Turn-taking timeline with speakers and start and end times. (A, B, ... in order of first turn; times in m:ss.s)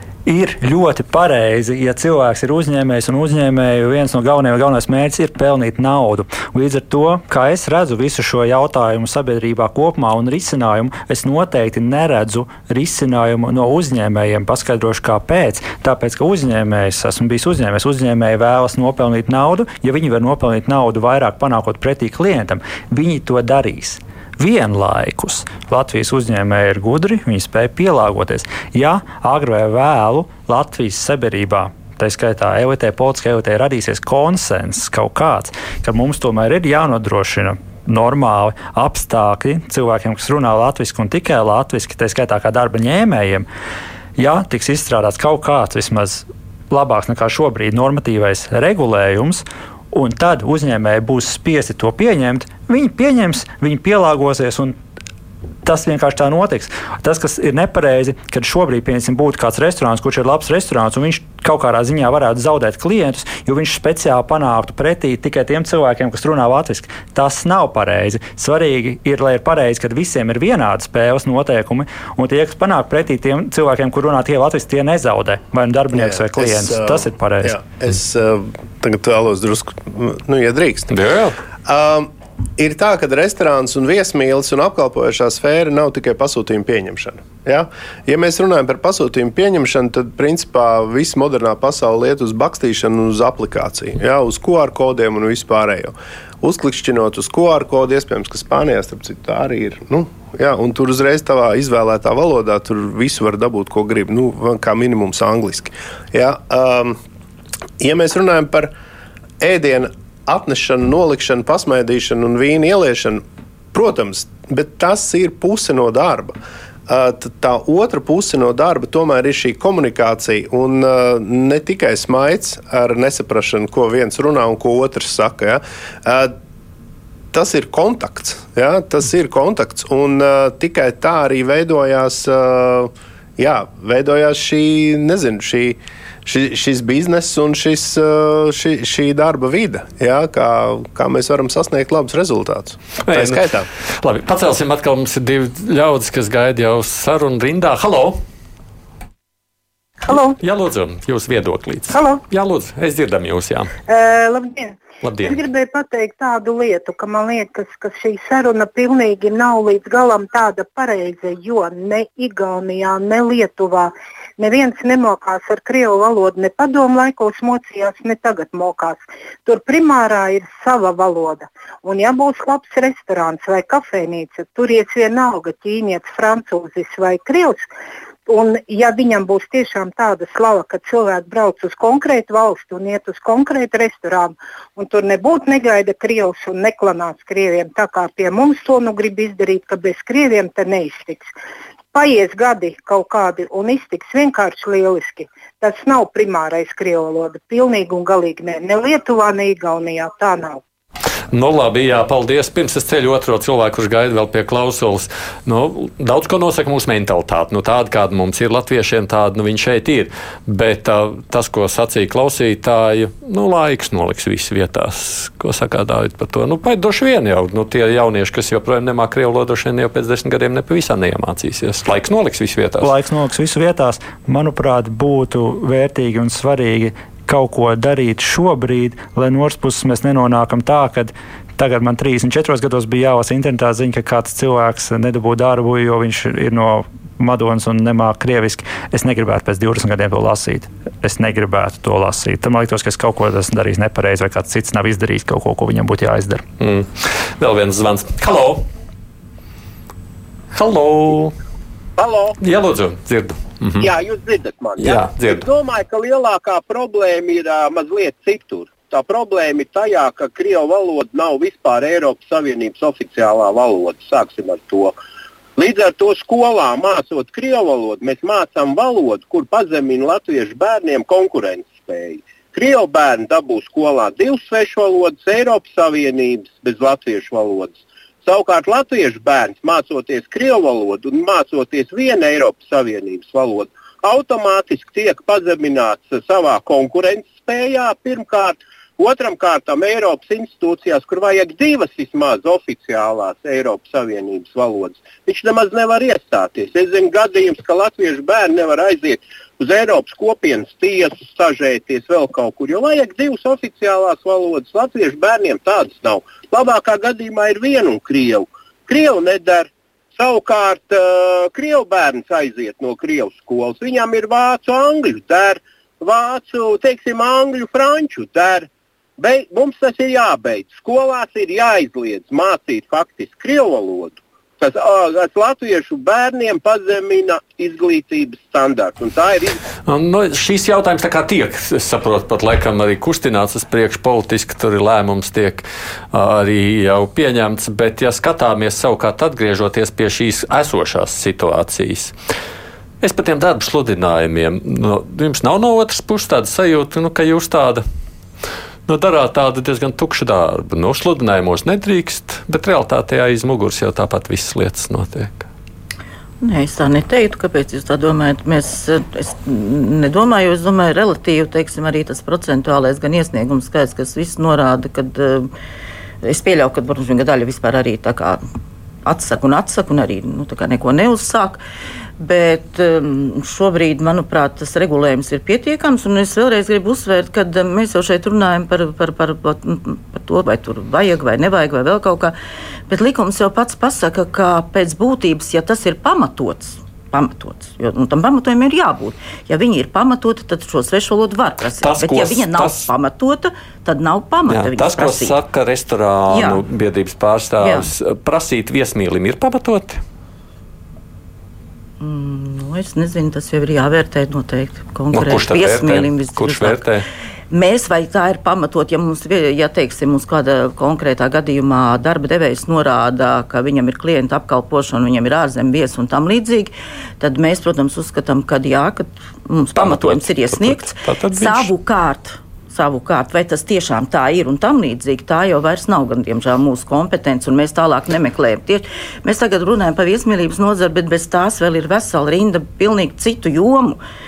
0:00.3-0:43.5 A
0:44.2-0:54.8 A
0:55.6-1:17.6 A
1:15.9-1:20.9 B
1:20.9-1:21.4 C
1:21.7-1:47.0 B
1:47.8-1:48.7 B
1:49.4-1:56.4 B
1:56.9-2:06.4 B
2:07.3-2:23.7 B
2:23.0-2:28.2 C
2:30.0-2:30.4 D
2:30.4-2:33.7 C
2:31.9-2:32.2 D
2:33.9-2:57.6 D
2:35.0-2:35.4 C
2:58.3-3:11.3 D
3:11.9-3:20.6 D
3:21.3-3:42.9 C
3:42.8-4:06.4 A
4:06.6-4:08.6 C
4:10.5-4:11.4 C
4:12.0-4:12.4 E
4:12.4-4:13.9 C
4:13.8-4:24.9 E
4:14.8-4:15.5 C
4:25.6-5:18.7 E
5:19.2-5:29.6 E
5:29.9-5:42.1 C
5:43.0-5:47.8 C
5:48.9-5:55.5 C
5:56.4-6:05.5 F
6:06.2-6:08.4 F
6:09.0-6:11.6 F
6:12.2-6:22.4 F
6:22.9-6:35.4 F
6:31.8-6:32.9 C
6:34.5-6:40.0 C
6:36.3-6:36.6 F
6:37.6-6:37.9 F
6:42.0-6:46.8 F
6:45.1-6:47.1 C
6:47.5-7:14.0 F
6:59.8-7:01.7 C